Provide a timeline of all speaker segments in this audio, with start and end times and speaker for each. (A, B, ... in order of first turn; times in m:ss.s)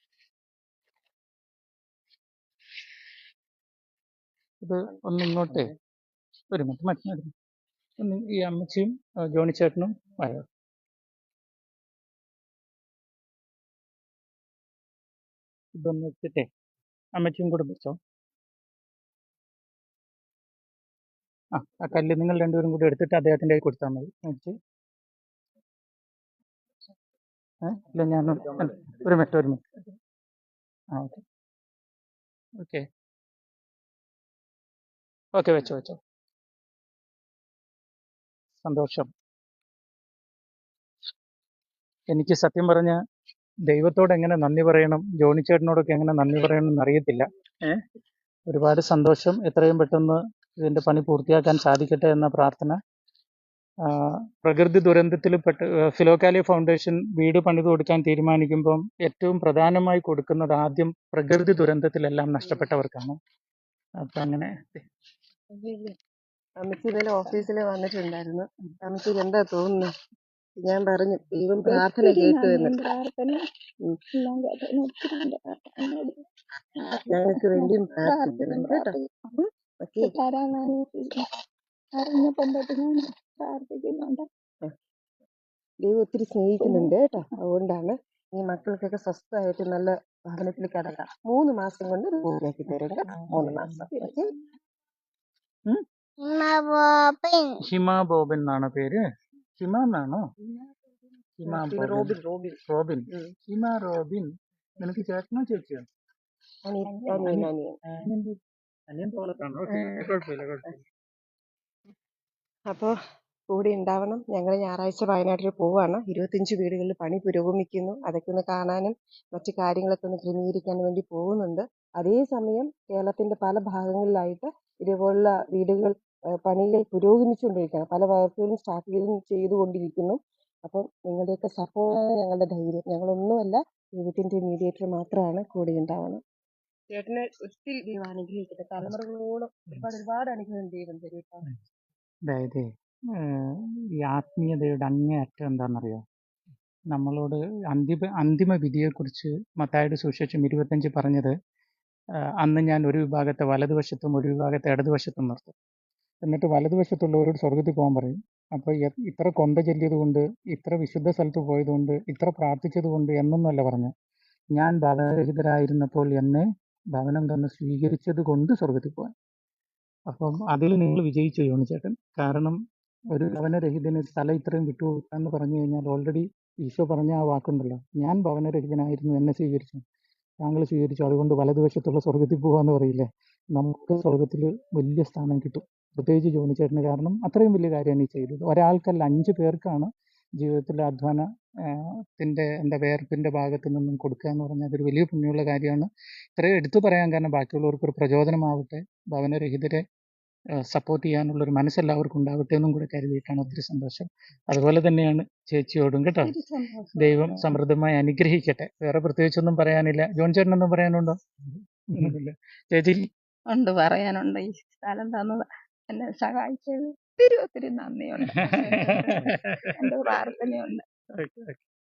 0:04.6-0:05.7 A
0:06.5-0:07.3 A
0:08.0-0:10.4 A
0:15.7-0:16.5 A
0:17.2-0:18.0 A
0:21.5-0:24.6 A
0:27.7-0:29.7 A
0:30.9-0:31.2 A
0:32.6-0:32.8 A
0:35.4-0:36.0 A
0:38.6-0:39.1 A
0:42.1-0:43.0 A
0:43.7-0:47.8 A
0:48.5-0:52.8 A
0:53.9-1:03.2 A
1:04.0-1:04.8 A
1:05.5-1:05.9 B
1:06.6-1:09.9 B
1:10.6-1:12.8 B
1:11.7-1:13.4 C
1:14.1-1:16.2 C
1:16.8-1:19.5 C
1:17.1-1:18.9 B
1:19.8-1:20.1 B
1:20.0-1:21.3 C
1:21.9-1:24.3 C
1:25.8-1:34.3 B
1:26.6-1:26.9 C
1:33.1-1:33.9 A
1:37.6-1:39.0 A
1:39.6-1:40.2 A
1:41.4-1:44.3 A
1:41.5-1:42.6 B
1:44.8-1:45.9 A
1:46.7-1:47.8 B
1:46.8-1:47.5 C
1:47.8-1:48.4 A
1:48.9-1:50.8 A
1:49.7-1:50.7 B
1:52.7-1:52.9 B
1:53.5-2:05.9 B
2:06.4-2:16.2 B
2:16.9-2:21.4 B
2:22.3-2:22.7 A
2:23.2-2:26.0 A
2:26.9-2:31.4 A
2:32.4-2:35.5 A
2:36.2-2:43.9 A
2:44.6-2:49.1 A
2:50.1-2:52.6 A
2:53.1-2:59.8 A
3:00.4-3:09.9 A
3:10.4-3:19.8 A
3:20.6-3:26.3 A
3:26.2-3:27.5 C
3:27.0-3:33.1 A
3:33.5-3:40.8 C
3:38.3-3:39.7 A
3:41.2-3:41.6 A